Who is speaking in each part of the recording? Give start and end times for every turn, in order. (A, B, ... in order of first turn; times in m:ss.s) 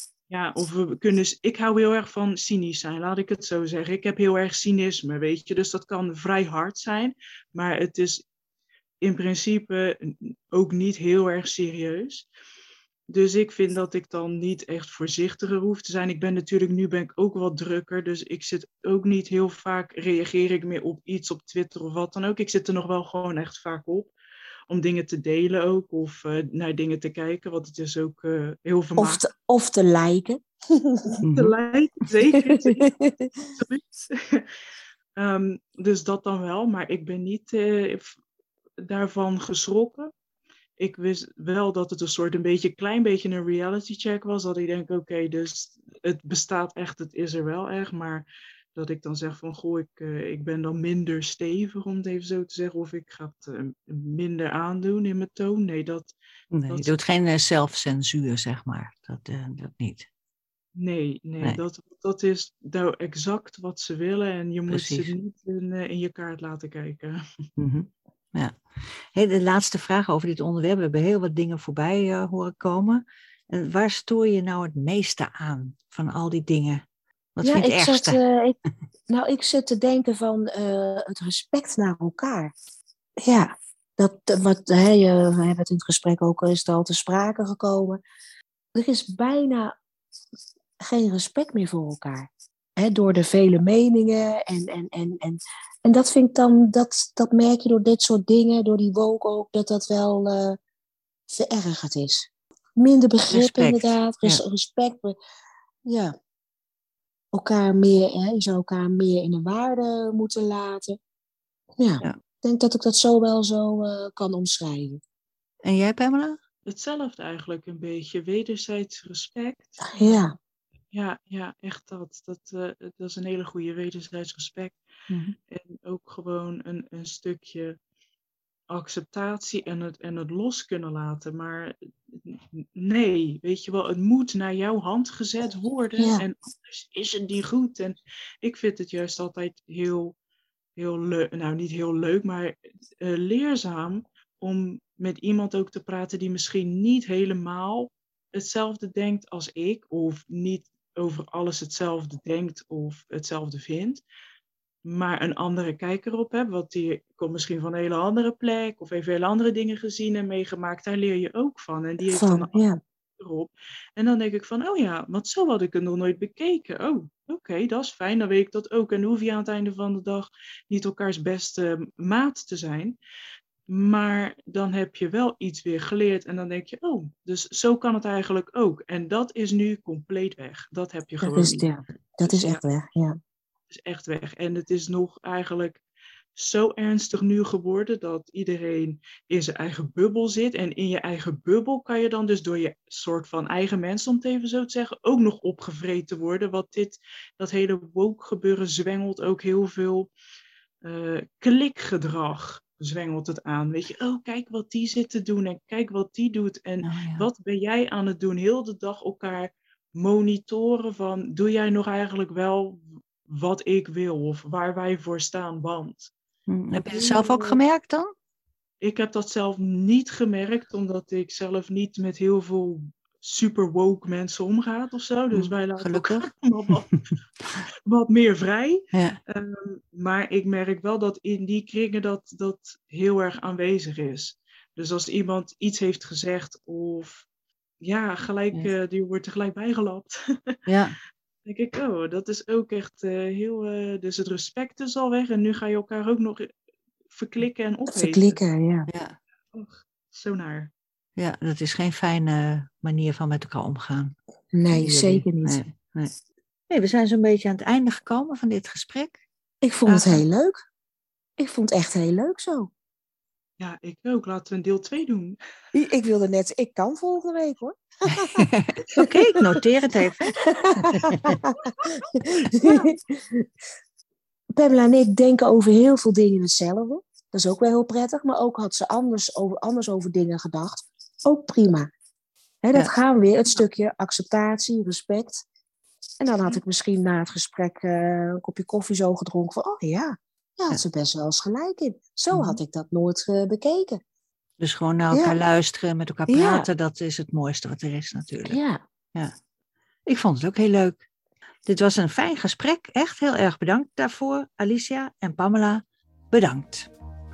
0:00.3-0:08.2 A
0:09.0-0:12.3 A
0:13.1-0:24.1 A
0:24.7-0:29.2 A
0:29.0-0:31.2 B
0:31.2-0:31.5 C
0:31.2-0:32.9 A
0:32.6-0:33.3 B
0:33.5-0:34.5 A
0:35.2-0:38.2 A
0:38.8-0:40.1 A
0:40.8-0:56.1 A
0:56.5-1:00.1 C
1:00.8-1:07.2 A
1:04.7-1:05.1 C
1:07.6-1:16.8 C
1:17.4-1:18.2 C
1:17.4-1:18.6 B
1:19.1-1:22.5 B
1:23.2-1:28.0 B
1:28.7-1:29.8 B
1:30.8-1:40.6 B
1:41.3-1:45.1 B
1:43.3-1:44.4 C
1:45.9-1:46.1 B
1:47.3-1:51.0 B
1:51.8-1:55.0 B
1:55.6-1:56.4 C
1:56.7-2:00.3 A
1:59.8-2:00.4 B
2:00.9-2:04.8 A
2:05.1-2:05.4 C
2:05.5-2:07.8 A
2:08.7-2:20.1 A
2:16.0-2:16.2 B
2:20.8-2:34.0 A
2:34.8-2:42.6 A
2:42.0-2:42.8 B
2:43.2-2:53.0 A
2:53.7-3:01.7 A
3:01.2-3:03.2 B
3:02.2-3:02.6 A
3:03.7-3:05.8 A
3:06.4-3:20.1 A
3:20.8-3:36.1 A
3:26.8-3:27.3 C
3:36.5-3:38.1 C
3:36.8-3:37.6 A
3:38.8-3:47.1 A
3:45.3-3:47.0 C
3:47.9-3:57.3 A
3:48.9-3:49.2 C
3:57.8-4:00.6 A
4:00.7-4:01.0 C
4:01.4-4:06.5 A
4:07.1-4:08.4 A
4:07.9-4:08.9 B
4:08.9-4:09.2 C
4:09.5-4:10.7 A
4:11.2-4:14.1 C
4:14.5-4:15.6 B
4:14.7-4:16.1 C
4:16.7-4:19.2 C
4:19.6-4:20.6 B
4:19.9-4:20.2 C
4:21.4-4:22.7 B
4:23.6-4:25.4 A
4:25.7-4:29.6 B
4:28.1-4:31.4 C
4:30.4-4:33.5 B
4:34.6-4:41.9 B
4:42.6-4:45.4 B
4:46.2-4:54.0 B
4:52.3-4:52.6 C
4:54.6-4:58.6 C
4:55.1-4:55.4 B
4:56.3-4:56.7 B
4:58.4-4:58.8 B
5:00.1-5:01.0 C
5:01.7-5:06.9 C